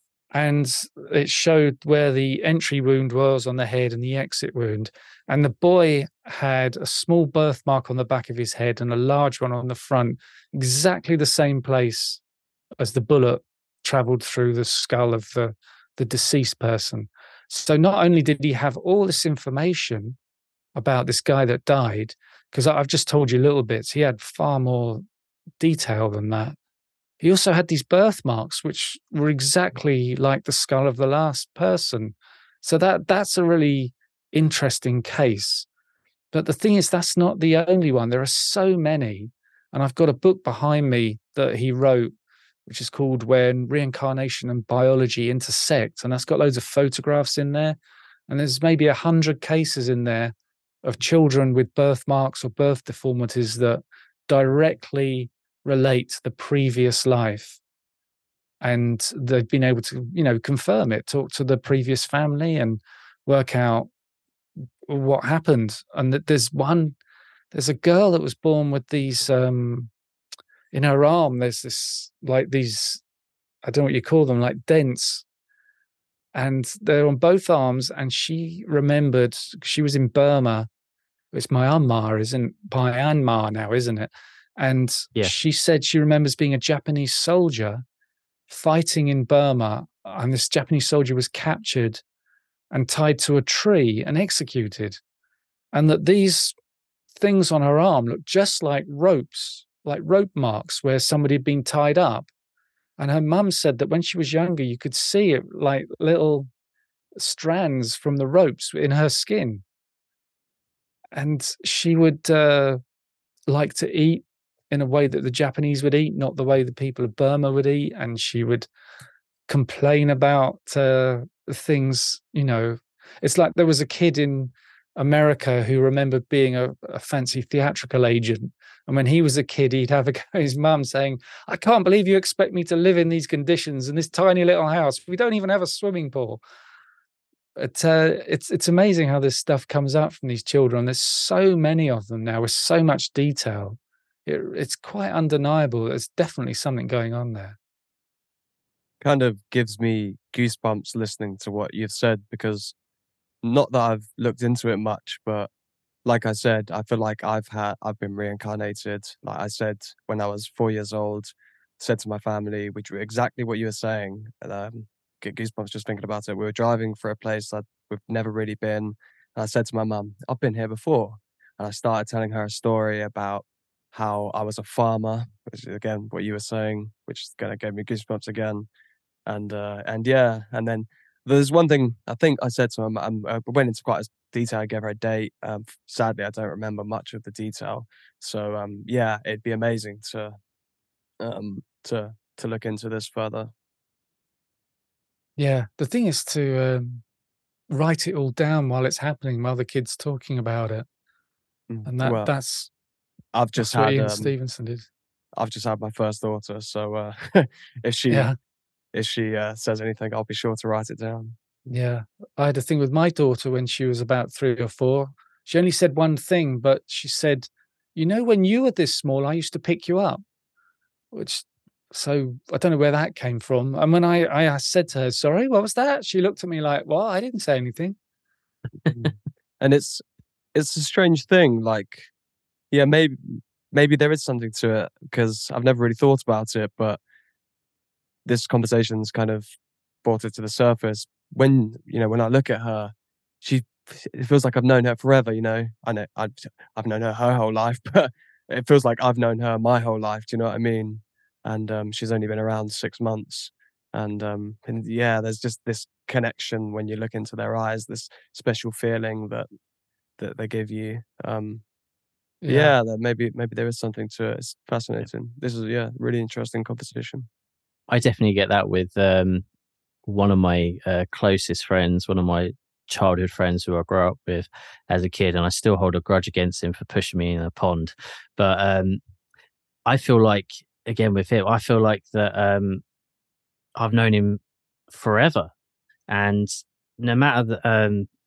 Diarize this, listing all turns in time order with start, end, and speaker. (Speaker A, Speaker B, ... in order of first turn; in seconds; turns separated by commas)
Speaker A: 0.3-12.2, Speaker A: 12.8-20.2, Speaker A: 20.8-25.0, Speaker A: 25.6-26.6, Speaker A: 27.2-35.7, Speaker A: 36.3-42.1, Speaker A: 42.6-47.8, Speaker A: 48.3-57.6, Speaker A: 58.6-63.9, Speaker A: 64.9-67.0, Speaker A: 67.5-69.9, Speaker A: 70.7-73.0, Speaker A: 73.6-75.2, Speaker A: 76.3-80.7, Speaker A: 81.3-87.8, Speaker A: 88.5-92.0, Speaker A: 92.7-95.0, Speaker A: 95.7-96.5, Speaker A: 97.2-102.3, Speaker A: 103.0-106.5, Speaker A: 107.2-109.6, Speaker A: 111.1-112.8, Speaker A: 113.5-118.7, Speaker A: 119.5-136.4, Speaker A: 137.6-147.6, Speaker B: 149.0-152.7, Speaker B: 153.4-155.5, Speaker B: 156.1-178.7, Speaker B: 179.3-190.3, Speaker B: 191.2-193.5, Speaker A: 195.4-197.0, Speaker A: 197.7-200.9, Speaker B: 201.7-202.3, Speaker A: 201.8-202.7, Speaker B: 203.3-204.3, Speaker A: 203.6-204.9, Speaker B: 205.3-208.3, Speaker A: 208.1-208.3, Speaker B: 208.9-211.4, Speaker A: 211.7-220.2, Speaker A: 221.1-228.0, Speaker B: 229.6-230.0, Speaker B: 230.6-232.1, Speaker B: 232.7-237.0, Speaker B: 238.2-239.5, Speaker B: 240.0-259.5, Speaker B: 260.2-261.6, Speaker A: 262.4-262.8, Speaker B: 262.5-267.3, Speaker C: 267.9-269.4, Speaker C: 270.1-279.0, Speaker C: 279.9-282.8, Speaker C: 283.8-285.5, Speaker C: 286.1-288.1